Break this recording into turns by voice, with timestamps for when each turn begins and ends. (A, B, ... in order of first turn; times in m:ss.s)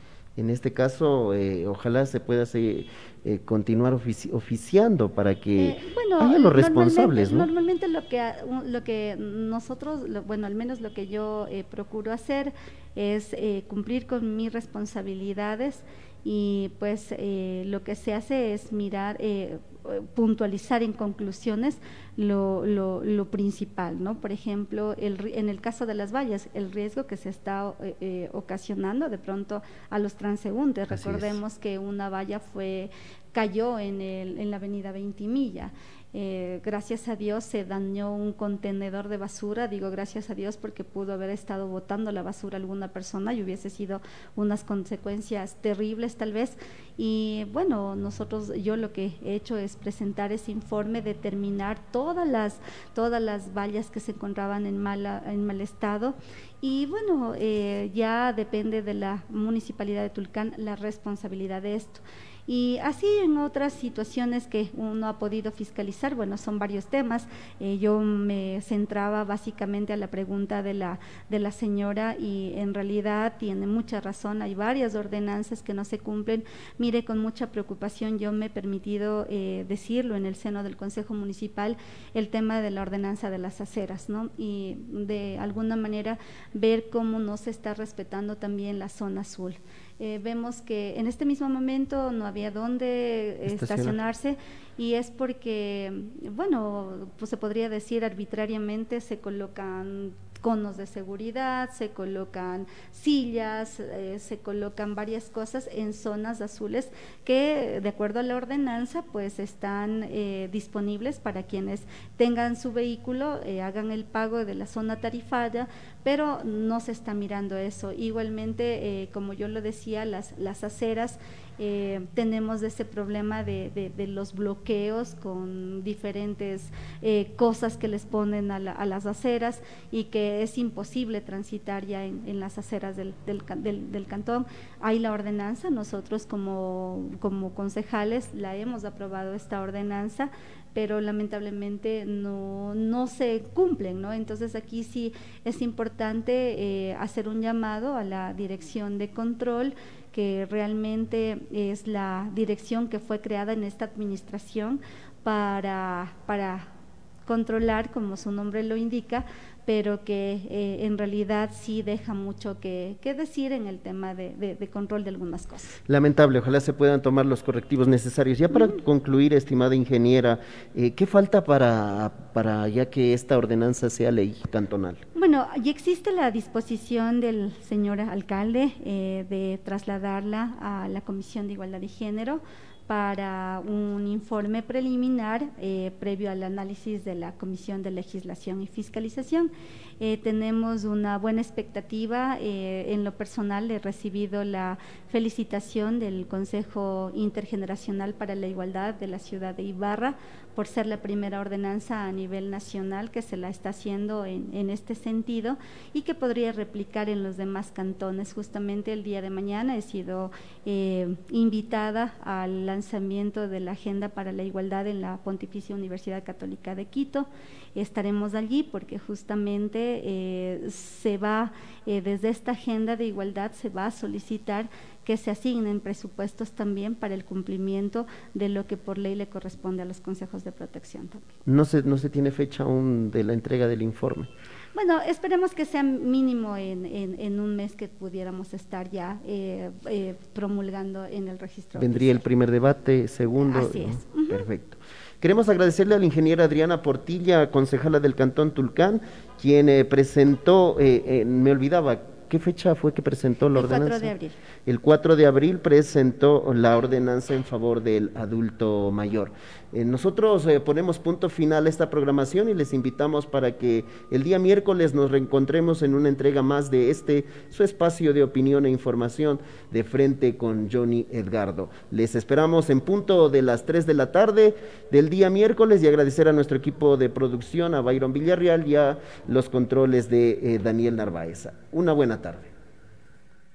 0:00.4-0:07.5 A
0:05.6-2:36.7 B
0:30.9-0:31.4 A
1:33.5-1:34.0 A
2:37.3-2:45.8 B
2:45.9-2:55.0 A
2:48.5-2:48.8 B
2:55.1-3:51.3 B
3:51.5-3:54.3 A
3:54.8-4:02.2 B
4:01.8-4:14.1 A
4:03.4-4:04.5 B
4:13.5-4:14.4 B
4:14.6-4:42.5 A